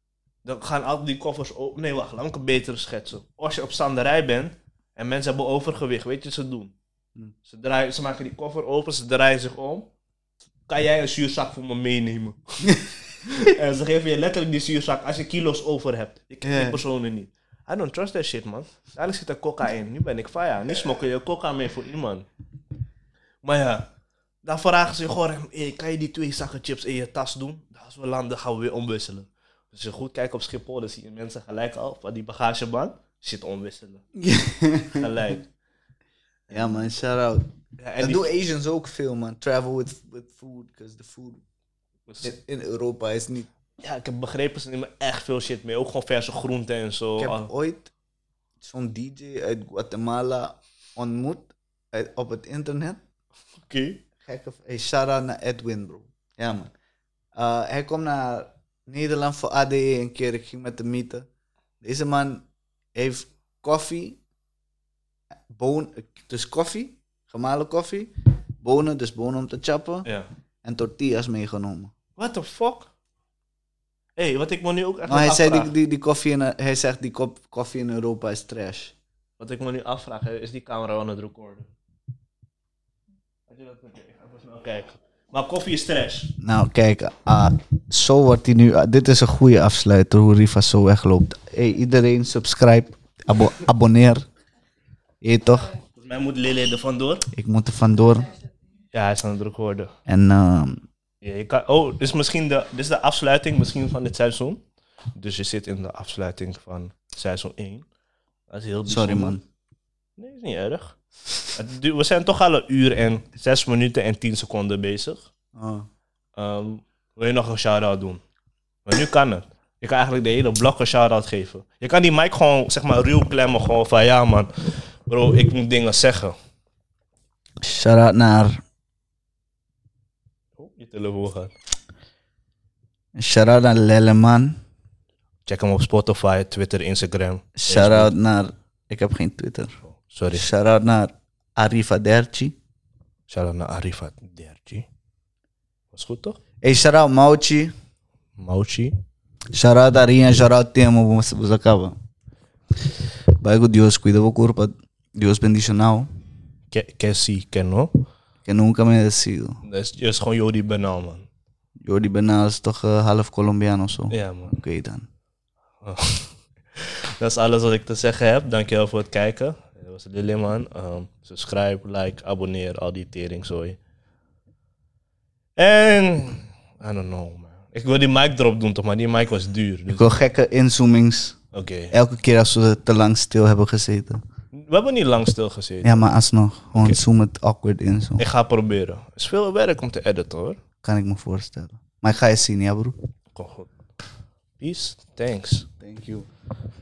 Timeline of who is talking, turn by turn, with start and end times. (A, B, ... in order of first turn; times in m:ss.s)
0:00.4-0:06.7 A
0:07.4-0:09.9 A
0:10.7-0:22.3 A
0:16.4-0:16.8 B
0:23.4-0:23.9 A
0:24.4-0:34.0 A
0:34.2-0:35.4 B
0:35.0-0:35.4 A
0:36.5-0:36.8 A
0:36.5-0:37.5 B
0:37.8-0:38.3 A
0:38.0-0:41.4 B
0:42.1-0:42.3 A
0:42.2-0:43.5 B
0:43.8-0:47.5 A
0:47.2-0:47.9 B
0:48.6-0:53.0 B
0:53.7-0:54.0 A
0:54.2-0:56.7 B
0:57.3-1:01.3 B
1:01.8-1:04.2 B
1:05.5-1:10.1 B
1:10.6-1:11.9 B
1:12.2-1:12.9 A
1:14.2-1:15.7 A
1:15.0-1:18.9 B
1:19.4-1:21.7 A
1:23.5-1:26.3 A
1:26.4-1:34.2 B
1:35.2-1:35.7 B
1:36.0-1:37.3 A
1:37.3-1:38.3 B
1:38.9-1:39.9 A
1:40.1-1:40.8 B
1:41.2-1:44.6 A
1:45.2-1:47.8 A
1:48.5-1:49.4 A
1:48.9-1:49.4 B
1:50.2-1:51.0 A
1:51.5-1:55.2 A
1:55.5-1:55.9 B
1:56.4-1:58.2 A
1:58.8-2:06.3 A
2:07.6-2:08.6 B
2:10.6-2:11.5 A
2:13.2-2:14.6 B
2:15.4-2:18.1 A
2:17.6-2:19.7 B
2:19.8-2:20.5 A
2:20.3-2:22.6 B
2:23.3-2:24.9 A
2:25.9-2:26.4 A
2:26.6-2:27.7 B
2:28.4-2:28.9 A
2:29.5-2:31.9 B
2:32.8-2:36.1 B
2:36.7-2:37.9 A
2:38.4-2:39.6 B
2:39.6-2:41.3 A
2:41.8-2:45.1 B
2:44.1-2:44.6 A
2:45.8-2:53.8 A
2:55.6-3:00.2 A
2:59.9-3:01.4 B
3:01.5-3:01.9 A
3:01.9-3:04.2 B
3:04.5-3:06.1 A
3:05.8-3:08.2 B
3:06.7-3:07.0 A
3:08.2-3:10.6 A
3:10.8-3:13.0 B
3:13.3-3:13.7 A
3:14.6-3:15.7 A
3:15.8-3:16.3 B